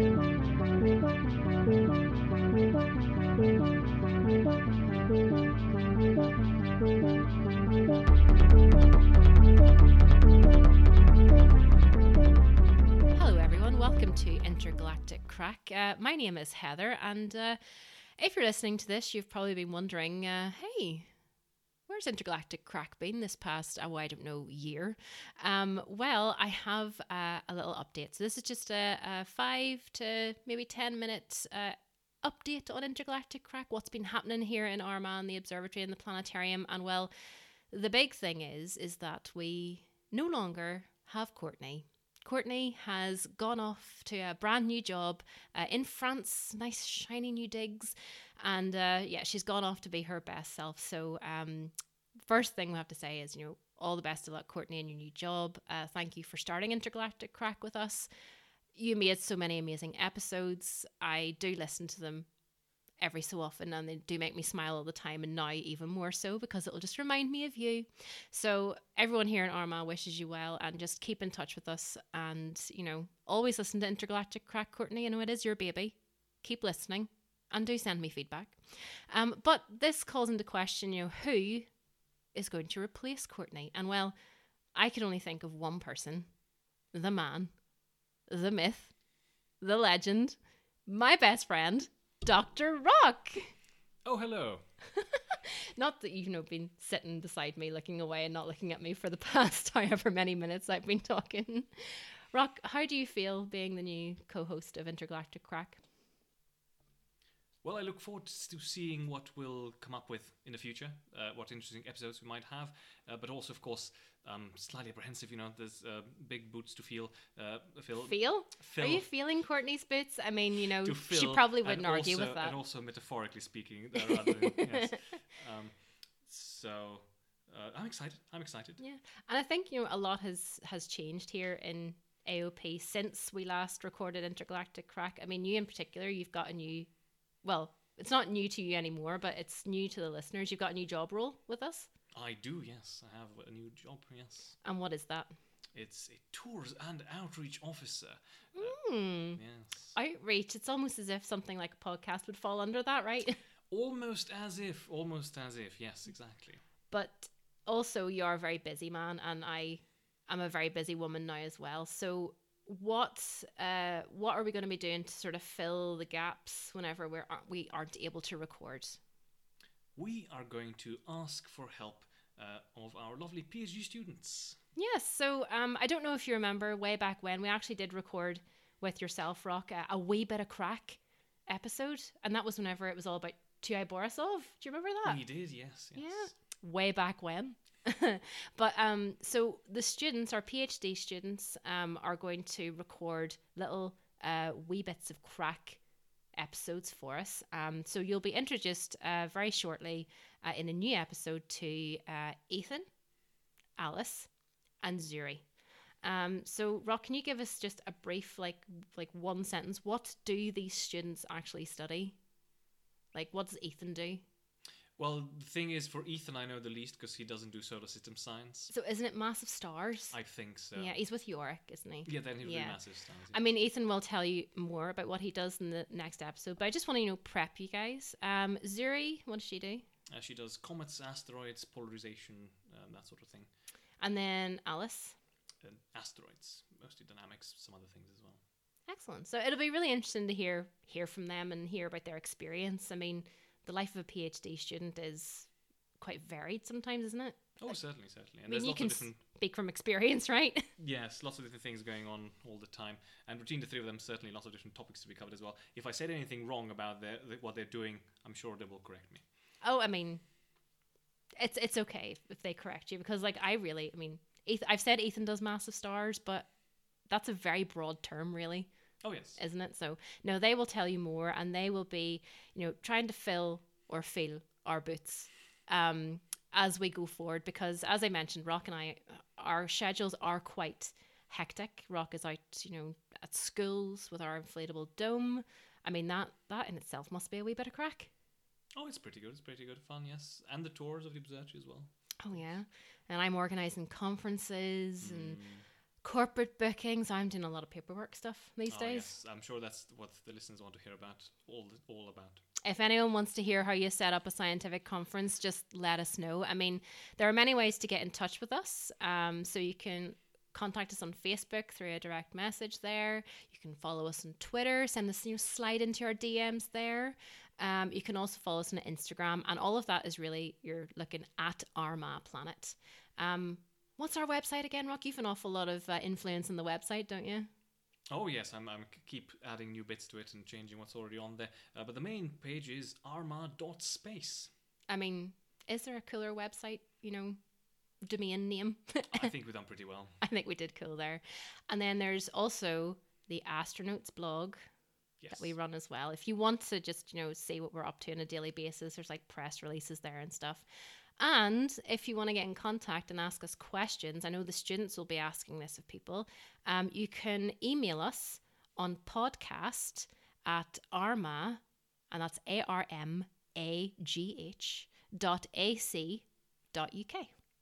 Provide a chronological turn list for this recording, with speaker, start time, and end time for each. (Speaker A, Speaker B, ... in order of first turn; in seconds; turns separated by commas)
Speaker A: 13.1-21.1, Speaker A: 21.9-37.1, Speaker A: 37.7-58.1, Speaker A: 58.7-62.3, Speaker A: 63.0-81.8, Speaker A: 82.3-84.2, Speaker A: 84.7-86.4, Speaker A: 86.9-87.6, Speaker A: 88.2-89.0, Speaker A: 89.5-93.5, Speaker B: 94.0-94.8, Speaker A: 95.8-105.8, Speaker B: 107.6-119.1, Speaker A: 118.0-122.6, Speaker B: 120.8-128.8, Speaker A: 124.1-124.6, Speaker A: 128.8-141.9, Speaker B: 142.1-144.6, Speaker A: 144.6-145.4, Speaker B: 145.7-149.9, Speaker A: 148.6-153.4, Speaker B: 153.7-156.6, Speaker A: 156.9-169.0, Speaker B: 169.9-174.6, Speaker A: 174.8-202.9, Speaker B: 185.0-186.3, Speaker A: 203.8-212.2, Speaker A: 213.1-214.2, Speaker B: 215.0-218.7, Speaker A: 218.7-229.9, Speaker B: 220.1-221.0, Speaker B: 222.1-223.5, Speaker B: 230.1-233.5, Speaker A: 234.0-235.2, Speaker B: 235.6-238.4, Speaker A: 238.9-250.7, Speaker B: 247.6-249.2, Speaker B: 250.8-259.3, Speaker A: 259.6-260.2, Speaker A: 261.4-288.1, Speaker B: 269.0-269.4, Speaker B: 288.8-292.6, Speaker A: 292.2-299.1, Speaker B: 295.0-295.7, Speaker B: 298.7-302.4, Speaker A: 302.6-327.5, Speaker B: 328.1-334.5, Speaker A: 334.9-337.5, Speaker A: 338.0-339.3, Speaker B: 339.1-340.2, Speaker A: 340.2-367.4, Speaker B: 345.2-345.5